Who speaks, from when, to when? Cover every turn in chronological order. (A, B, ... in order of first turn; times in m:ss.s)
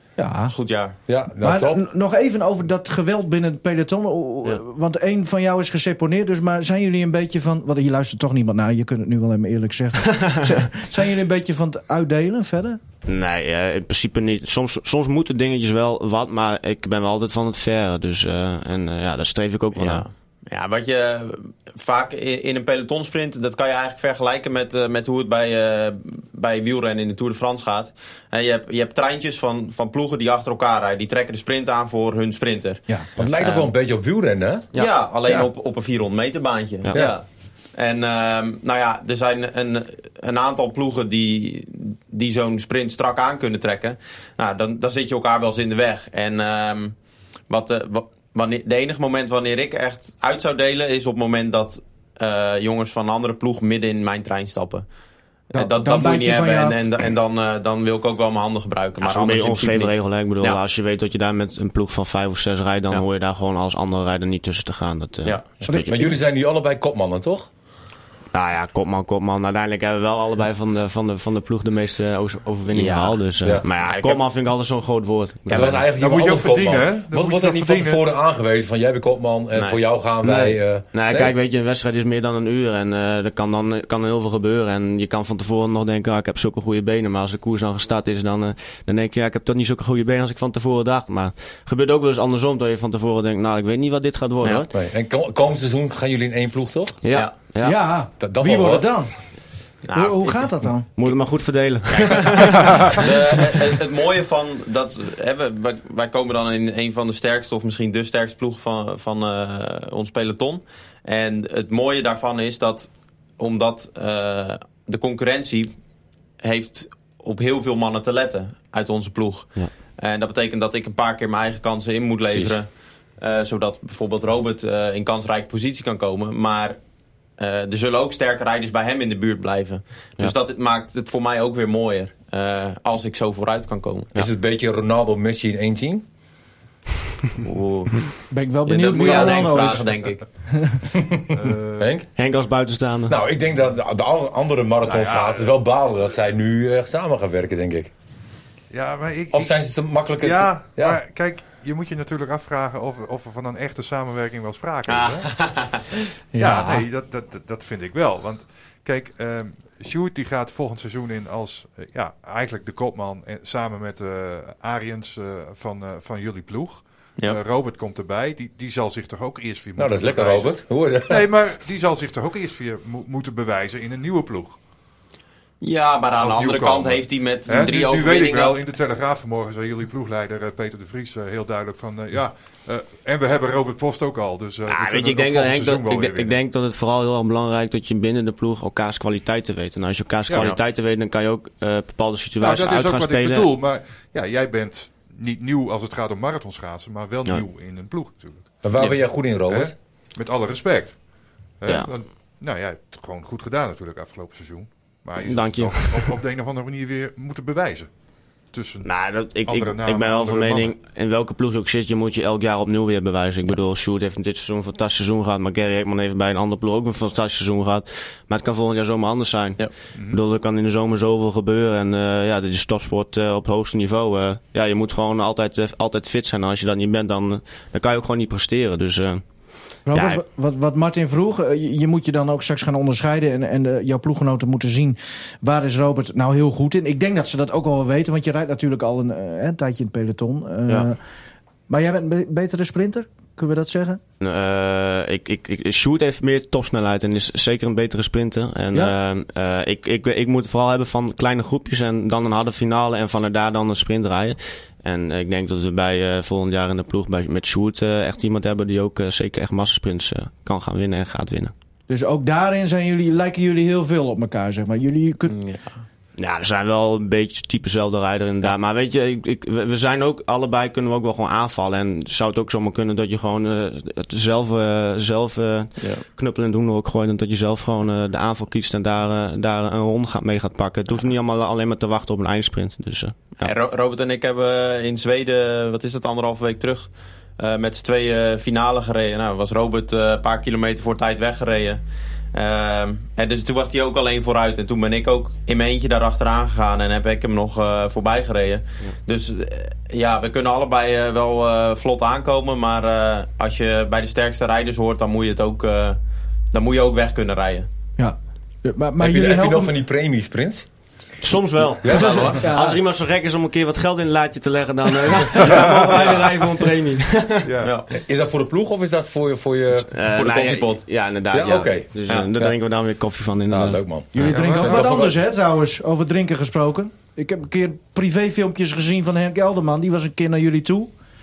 0:00.2-0:00.5 A
0:00.5-0:01.0 B
0:01.1-0:01.8 C
0:01.4-0:12.8 A
0:13.1-0:20.0 D
0:19.8-0:33.7 B
0:33.2-0:35.5 C
0:34.8-0:37.2 B
0:37.8-0:47.0 B
0:47.5-0:54.9 B
0:55.5-1:00.6 B
0:55.5-0:56.9 A
0:59.0-1:06.0 D
1:05.2-1:05.6 B
1:05.7-1:06.1 A
1:05.7-1:07.5 C
1:08.3-1:15.9 D
1:12.7-1:13.2 B
1:13.8-1:14.2 B
1:15.5-1:21.3 C
1:16.0-1:18.0 E
1:19.7-1:34.7 D
1:34.7-1:37.0 C
1:37.0-1:37.8 D
1:37.6-1:39.4 A
1:38.2-1:39.0 C
1:39.8-1:40.4 B
1:39.9-1:40.9 A
1:41.0-1:43.0 D
1:41.9-1:55.8 B
1:56.4-2:14.3 B
2:02.2-2:02.6 C
2:14.2-2:16.0 C
2:17.4-2:20.2 B
2:18.3-2:20.0 A
2:20.5-2:20.8 A
2:21.0-2:22.1 C
2:21.3-2:21.9 E
2:22.2-2:23.2 D
2:23.1-2:27.9 C
2:24.8-2:25.6 E
2:28.7-2:29.6 E
2:29.3-2:31.0 C
2:30.2-2:35.3 E
2:34.9-2:36.0 B
2:36.3-2:36.8 A
2:36.4-2:50.5 E
2:49.8-2:51.3 C
2:51.1-2:54.6 E
2:55.6-2:58.6 B
2:56.2-3:06.4 E
3:04.7-3:13.5 D
3:10.3-3:10.5 E
3:10.4-3:10.6 B
3:12.4-3:18.9 E
3:18.6-3:19.7 C
3:19.5-3:21.1 E
3:21.6-3:27.9 E
3:21.7-3:21.9 D
3:25.2-3:26.2 D
3:28.4-3:30.7 E
3:28.8-3:50.2 D
3:40.0-3:40.2 E
3:49.9-4:01.0 A
4:01.7-4:04.0 A
4:04.2-4:21.5 D
4:21.9-4:25.4 A
4:25.3-4:25.8 B
4:26.2-4:43.5 D
4:35.8-4:36.0 B
4:43.4-4:51.8 B
4:52.3-5:06.0 B
5:06.5-5:07.7 B
5:08.0-5:09.8 A
5:09.0-5:10.7 C
5:11.2-5:17.5 D
5:11.9-5:12.5 B
5:12.4-5:12.8 A
5:15.4-5:16.3 E
5:15.6-5:16.2 B
5:17.4-5:17.7 E
5:17.6-5:17.9 B
5:17.9-5:19.9 C
5:19.9-5:24.4 D
5:20.1-5:20.9 B
5:21.3-5:22.6 C
5:23.5-5:25.2 C
5:24.2-5:30.9 A
5:24.2-5:24.9 E